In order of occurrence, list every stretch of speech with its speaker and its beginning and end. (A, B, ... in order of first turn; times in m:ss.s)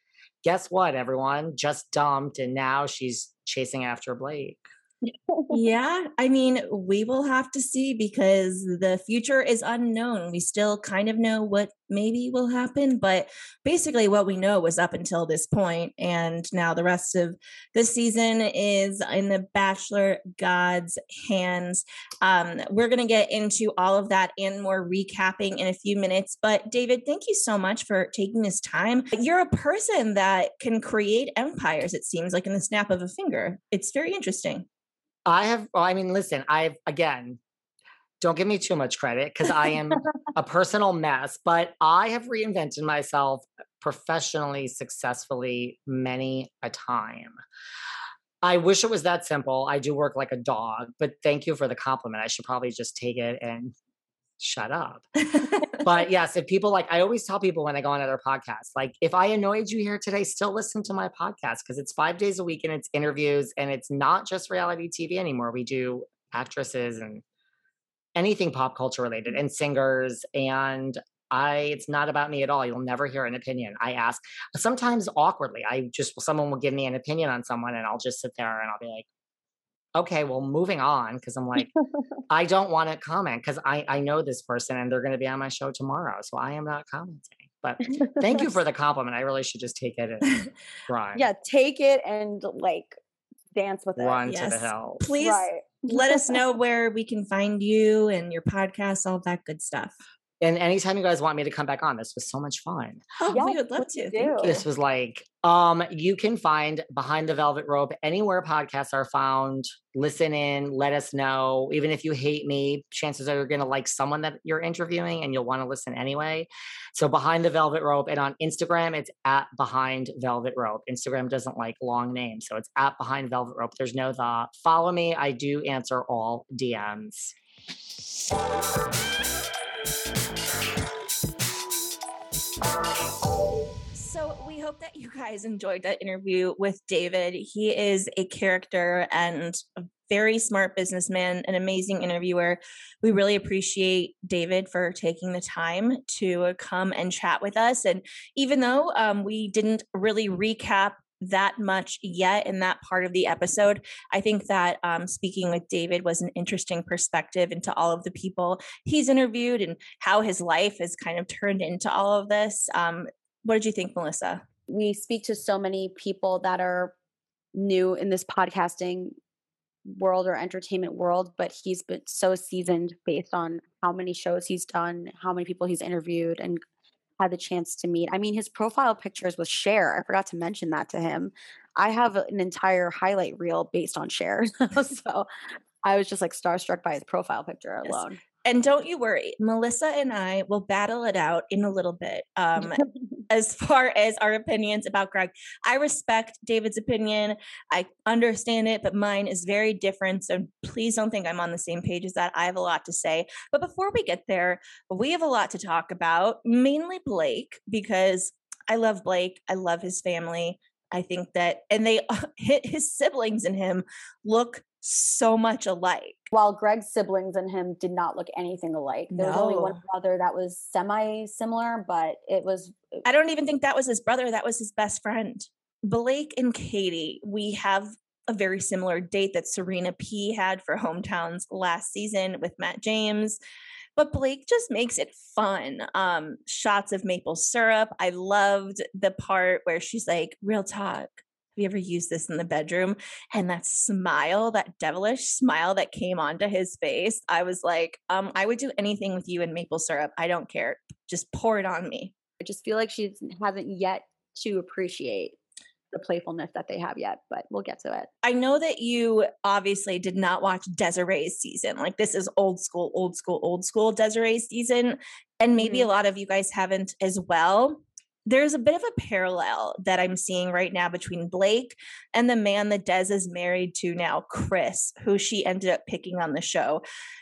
0:00.4-0:04.6 A
0:05.3-0:05.6 B
0:05.5-0:34.6 C
0:35.2-0:37.4 A
0:38.2-0:47.4 A
0:48.4-0:53.7 A
0:54.4-1:07.2 A
1:08.2-1:19.0 A
1:19.9-1:21.7 A
1:22.3-1:30.4 A
1:30.9-1:31.3 A
1:31.1-1:33.0 B
1:33.5-1:34.2 B
1:34.0-1:35.0 A
1:34.2-1:39.9 C
1:35.2-1:36.4 B
1:40.4-1:43.1 A
1:43.2-1:44.6 C
1:43.3-1:44.5 B
1:44.4-2:07.3 A
2:13.9-2:44.4 C
2:44.7-2:46.9 B
2:47.5-2:49.2 B
2:49.8-2:56.6 B
2:57.2-3:05.3 B
3:05.8-3:08.2 B
3:07.8-3:36.3 C
3:36.3-3:43.0 B
3:39.1-3:39.8 C
3:43.0-3:53.4 C
3:54.0-4:12.1 C
4:12.4-4:15.4 B
4:15.9-4:18.1 B
4:18.2-4:36.8 C
4:25.6-4:25.9 B